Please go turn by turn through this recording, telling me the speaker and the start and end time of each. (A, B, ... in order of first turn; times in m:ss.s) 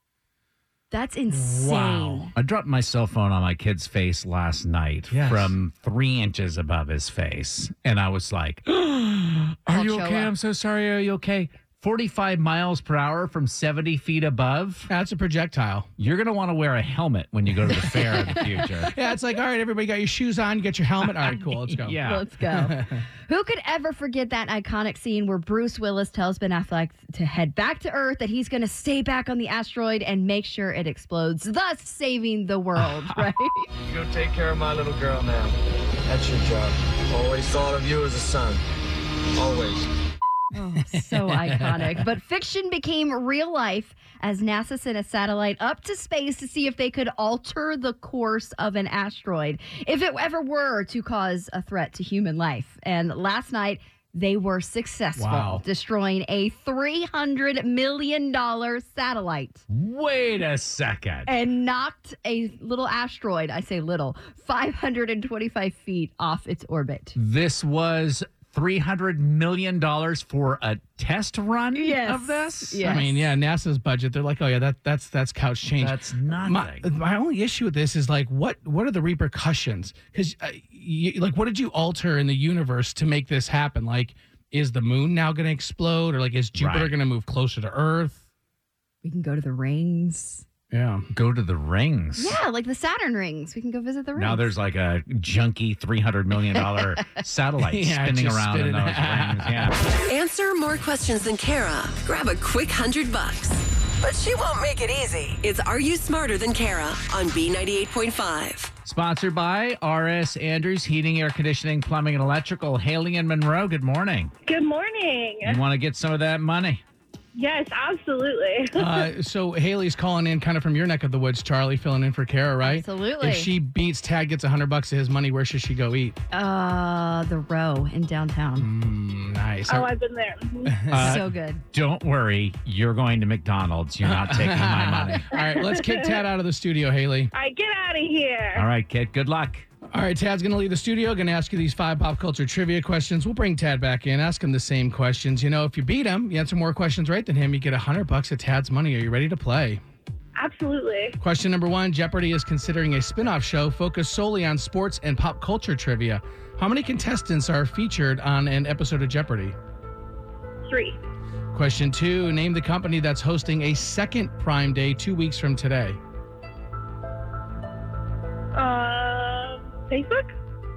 0:00.9-0:02.3 A
0:01.7-0:14.9 B
0:05.1-0:05.5 C
0:09.7-0:10.3 A
0:14.9-0:15.9 C
0:16.0-0:18.9 B
0:18.9-0:23.0 C
0:21.7-0:22.2 B
0:22.0-0:33.7 A
0:33.9-0:38.6 D
0:39.4-0:39.9 D
0:40.6-0:59.6 A
0:40.8-0:42.0 C
0:55.2-0:55.6 C
0:59.7-1:01.3 B
1:01.3-1:07.2 A
1:07.2-1:12.8 B
1:11.8-1:13.3 A
1:12.8-1:28.2 C
1:15.8-1:16.9 B
1:26.6-1:27.0 B
1:29.0-1:30.4 A
1:30.7-1:31.1 C
1:31.1-1:32.4 B
1:32.2-1:34.5 A
1:34.2-1:39.8 B
1:37.6-1:39.7 C
1:40.1-1:48.7 E
1:48.8-1:54.3 B
1:54.5-1:55.6 F
1:55.4-1:56.8 B
1:57.4-1:58.9 F
1:58.7-2:06.2 C
2:02.6-2:03.5 A
2:06.3-2:08.7 A
2:08.6-2:09.9 C
2:09.7-2:10.8 F
2:10.6-2:11.2 C
2:10.9-2:15.3 B
2:11.0-2:11.6 A
2:14.0-2:17.3 C
2:15.4-2:16.1 F
2:17.3-2:18.6 F
2:18.5-2:19.7 B
2:19.9-2:29.8 C
2:30.4-2:31.2 F
2:31.2-2:39.6 C
2:40.7-2:41.0 F
2:41.5-2:46.0 C
2:48.6-2:50.3 F